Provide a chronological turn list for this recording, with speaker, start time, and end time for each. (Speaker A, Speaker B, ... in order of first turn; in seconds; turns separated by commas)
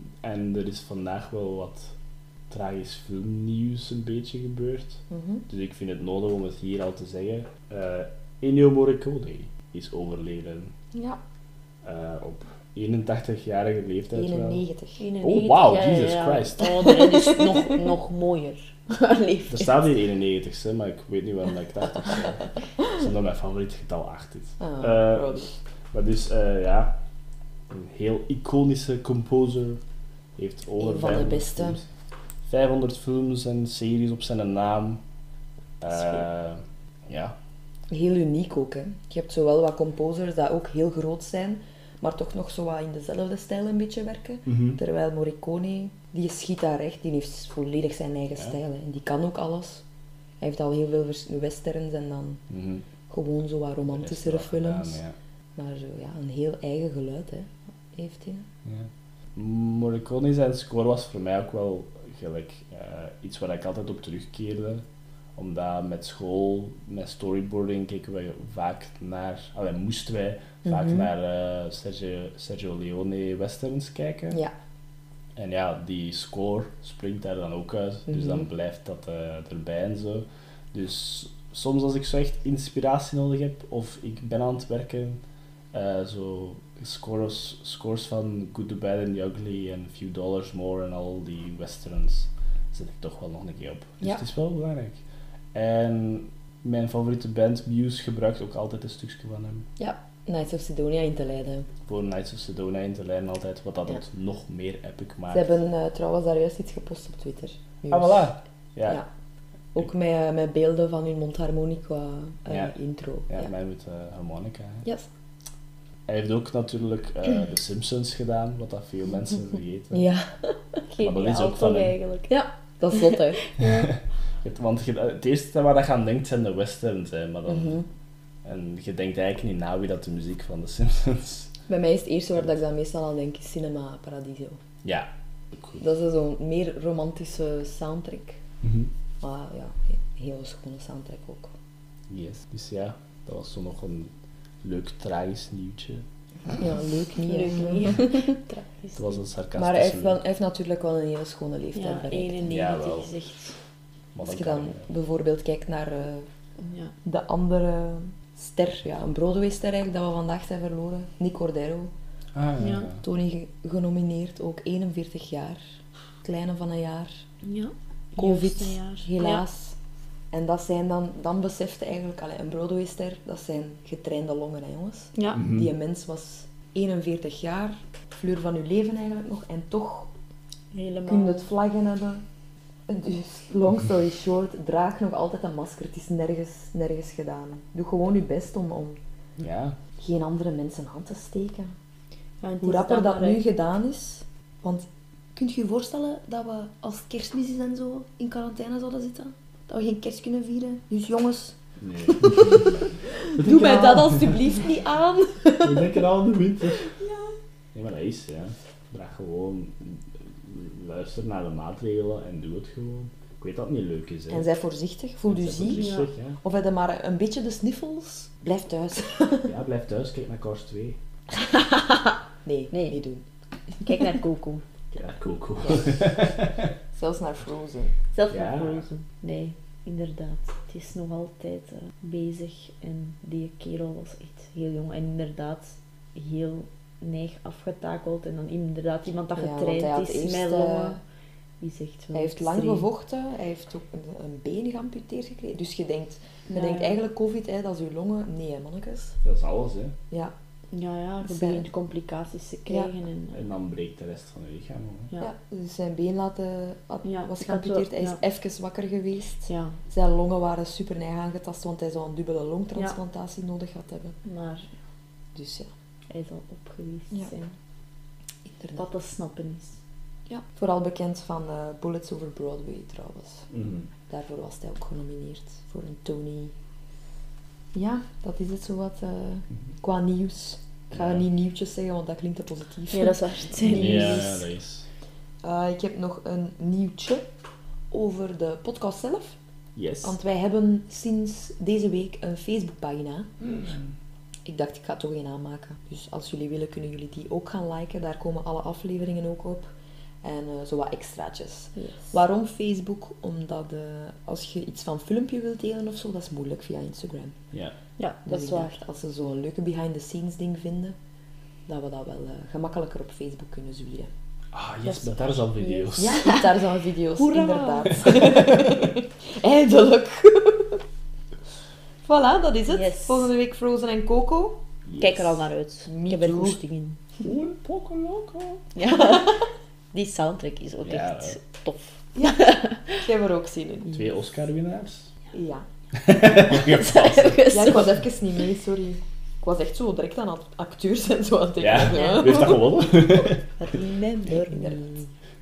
Speaker A: 0.2-1.9, Speaker A: 2.5-10.7, Speaker B: 5.1-5.4, Speaker B: 10.9-11.2, Speaker A: 11.8-14.6, Speaker B: 14.1-15.1, Speaker C: 15.0-19.8, Speaker A: 15.2-16.8, Speaker B: 17.0-17.4, Speaker A: 19.5-25.3, Speaker B: 24.6-25.5, Speaker A: 25.9-26.9, Speaker A: 27.7-29.8, Speaker A: 30.4-31.8, Speaker B: 30.8-31.8, Speaker A: 32.5-35.0, Speaker A: 35.8-37.4, Speaker B: 37.9-49.8, Speaker A: 44.5-44.8, Speaker B: 50.4-52.4, Speaker A: 52.5-52.8, Speaker B: 53.1-55.0, Speaker A: 54.0-55.1, Speaker B: 55.6-58.5, Speaker A: 58.6-64.8, Speaker A: 65.3-74.4, Speaker B: 70.7-71.1, Speaker A: 75.3-85.2, Speaker B: 78.1-78.4, Speaker A: 85.7-95.0, Speaker A: 95.5-99.7, Speaker B: 99.8-101.7, Speaker A: 101.9-105.5, Speaker B: 105.3-108.3, Speaker A: 107.9-109.0, Speaker B: 109.7-113.5, Speaker A: 113.3-114.8, Speaker A: 116.1-120.1, Speaker B: 119.9-120.6, Speaker C: 120.9-122.3, Speaker A: 121.0-122.0, Speaker B: 122.3-123.4, Speaker C: 122.9-123.9, Speaker A: 123.7-127.8, Speaker B: 127.5-127.9, Speaker A: 128.4-131.5, Speaker B: 131.7-134.6, Speaker A: 134.8-135.8, Speaker B: 135.8-138.4, Speaker A: 138.6-138.9, Speaker B: 139.2-141.5, Speaker A: 142.1-144.1, Speaker A: 144.6-146.1, Speaker B: 146.6-148.3, Speaker C: 147.3-149.2, Speaker A: 148.9-150.2, Speaker B: 149.6-152.5, Speaker C: 151.7-153.5, Speaker A: 152.5-153.1, Speaker A: 154.2-154.8, Speaker B: 154.2-156.3, Speaker C: 156.6-156.9, Speaker B: 157.0-161.9, Speaker A: 162.3-163.0, Speaker C: 162.6-162.9, Speaker B: 163.0-165.6, Speaker B: 166.2-167.2, Speaker C: 167.4-169.4, Speaker B: 168.2-169.7, Speaker B: 170.3-180.1, Speaker C: 175.2-175.4, Speaker A: 175.3-175.7, Speaker C: 180.7-181.5, Speaker B: 181.1-182.2, Speaker B: 182.9-189.0, Speaker A: 189.4-189.8, Speaker B: 190.0-191.7, Speaker C: 192.4-193.4, Speaker B: 192.6-202.7, Speaker A: 201.8-202.8, Speaker B: 203.3-205.9, Speaker A: 203.3-204.3, Speaker A: 205.6-206.8, Speaker B: 207.0-207.3, Speaker A: 207.7-214.5, Speaker B: 214.3-219.5, Speaker A: 215.3-216.4, Speaker C: 215.7-216.1, Speaker A: 219.4-221.0, Speaker B: 222.4-223.3, Speaker C: 222.7-223.0, Speaker C: 223.8-224.6, Speaker A: 224.9-226.7, Speaker B: 226.9-227.9, Speaker C: 228.1-241.0, Speaker A: 228.3-228.8, Speaker B: 239.3-241.0, Speaker C: 241.6-242.8, Speaker B: 242.1-249.2, Speaker C: 246.5-247.0, Speaker A: 249.2-249.9, Speaker C: 250.7-253.4, Speaker B: 251.2-251.7, Speaker A: 253.3-255.1, Speaker B: 255.2-264.1, Speaker C: 257.1-258.2, Speaker C: 259.5-259.8, Speaker C: 264.2-264.7, Speaker B: 265.4-265.7, Speaker C: 266.1-267.5, Speaker B: 268.4-268.9, Speaker C: 268.8-269.8, Speaker B: 270.3-273.5, Speaker A: 273.5-273.9, Speaker B: 274.1-276.5, Speaker B: 277.7-284.1, Speaker A: 280.9-281.2, Speaker C: 282.9-284.4, Speaker A: 283.7-284.9, Speaker B: 285.4-287.3, Speaker B: 287.9-289.4, Speaker A: 289.8-290.1, Speaker B: 290.0-293.3, Speaker B: 294.4-299.7, Speaker B: 300.2-307.4, Speaker C: 301.8-302.1, Speaker C: 308.0-308.7, Speaker B: 308.3-310.9, Speaker B: 311.7-314.1, Speaker A: 314.5-316.4, Speaker C: 314.9-316.4, Speaker B: 316.0-320.8, Speaker C: 317.1-318.2, Speaker B: 322.0-324.6, Speaker C: 322.7-323.3, Speaker A: 324.9-325.4, Speaker C: 325.0-327.0, Speaker B: 325.9-326.6, Speaker A: 327.2-328.6, Speaker C: 328.8-332.8, Speaker A: 330.8-331.4, Speaker B: 332.1-334.0, Speaker A: 333.9-335.1, Speaker B: 335.3-335.6, Speaker A: 335.9-337.4, Speaker C: 336.4-338.0, Speaker B: 337.5-342.6, Speaker A: 341.6-343.4, Speaker C: 341.9-342.6, Speaker C: 343.6-344.8, Speaker B: 344.3-345.1